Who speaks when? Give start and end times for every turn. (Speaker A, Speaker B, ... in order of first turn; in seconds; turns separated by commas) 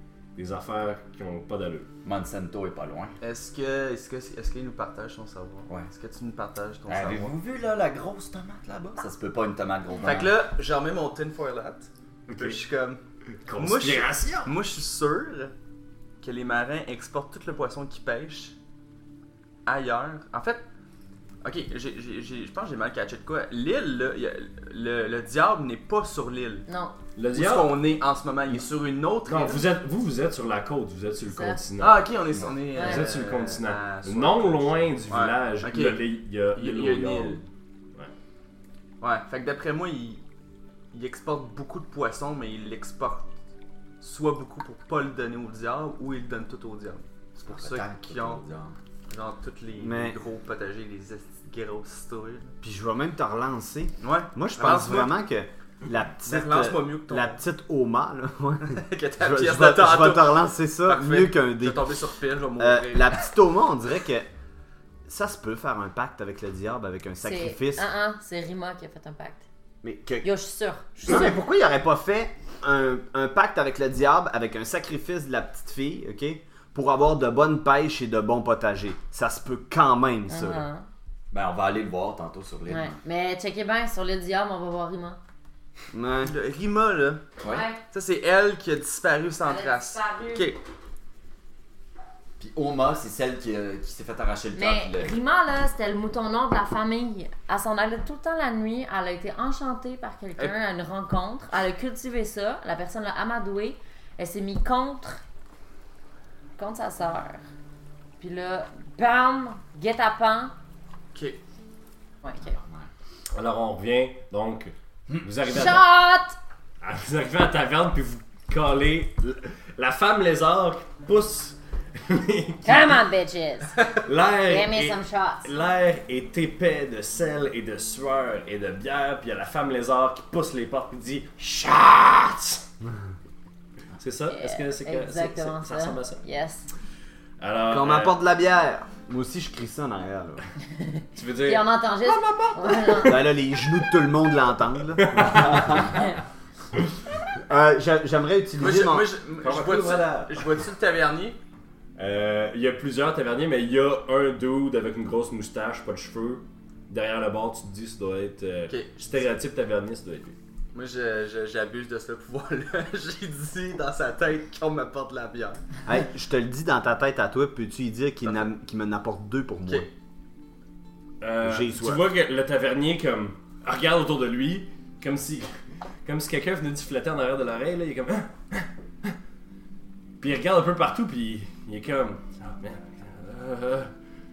Speaker A: 0.3-1.9, Speaker B: 2.0-3.1, Speaker C: 3.2-7.3, Speaker B: 6.9-10.3, Speaker C: 10.0-15.5, Speaker A: 12.3-12.6, Speaker A: 13.4-14.5, Speaker C: 16.2-18.5, Speaker C: 19.6-20.6, Speaker C: 21.4-26.7, Speaker D: 26.7-26.9, Speaker A: 27.1-27.8, Speaker C: 27.3-29.6, Speaker A: 29.2-32.1, Speaker D: 31.3-31.6, Speaker C: 31.8-37.4, Speaker B: 32.3-32.6, Speaker A: 32.7-37.4, Speaker D: 32.8-33.0, Speaker C: 39.0-40.2, Speaker C: 40.9-43.3, Speaker C: 44.0-48.4, Speaker B: 47.5-48.8, Speaker C: 49.1-52.5, Speaker E: 49.8-50.2, Speaker E: 52.6-61.9, Speaker C: 54.0-55.1, Speaker C: 56.2-57.4, Speaker C: 58.6-63.3, Speaker E: 62.6-64.3, Speaker E: 65.0-67.9, Speaker D: 67.2-69.4, Speaker E: 69.8-70.3, Speaker D: 70.2-71.3, Speaker E: 71.0-80.6, Speaker D: 80.3-80.9, Speaker B: 81.3-83.0, Speaker D: 82.7-85.2, Speaker E: 85.9-86.3, Speaker C: 86.2-87.3, Speaker D: 87.4-87.8, Speaker C: 87.9-90.6, Speaker D: 89.4-90.5, Speaker B: 92.4-95.2, Speaker D: 94.5-105.2, Speaker D: 106.6-107.4, Speaker D: 108.2-110.5, Speaker C: 111.1-111.4, Speaker D: 112.2-112.5, Speaker B: 112.4-112.9, Speaker A: 113.3-115.9, Speaker D: 115.4-116.4, Speaker A: 116.8-123.0, Speaker D: 122.6-123.8, Speaker A: 124.0-132.6, Speaker D: 124.5-125.5, Speaker A: 134.0-136.2, Speaker D: 134.3-136.7, Speaker A: 137.4-138.2, Speaker E: 137.7-140.4, Speaker A: 141.1-143.1, Speaker D: 141.4-143.3, Speaker E: 143.0-145.9, Speaker A: 145.0-145.8, Speaker E: 147.4-149.1, Speaker C: 148.6-151.4, Speaker A: 149.4-150.4, Speaker A: 152.0-160.4, Speaker C: 158.7-159.2, Speaker C: 160.7-165.6, Speaker E: 165.8-169.9, Speaker C: 168.2-168.5, Speaker A: 171.2-179.1, Speaker E: 171.4-172.0, Speaker A: 180.2-183.9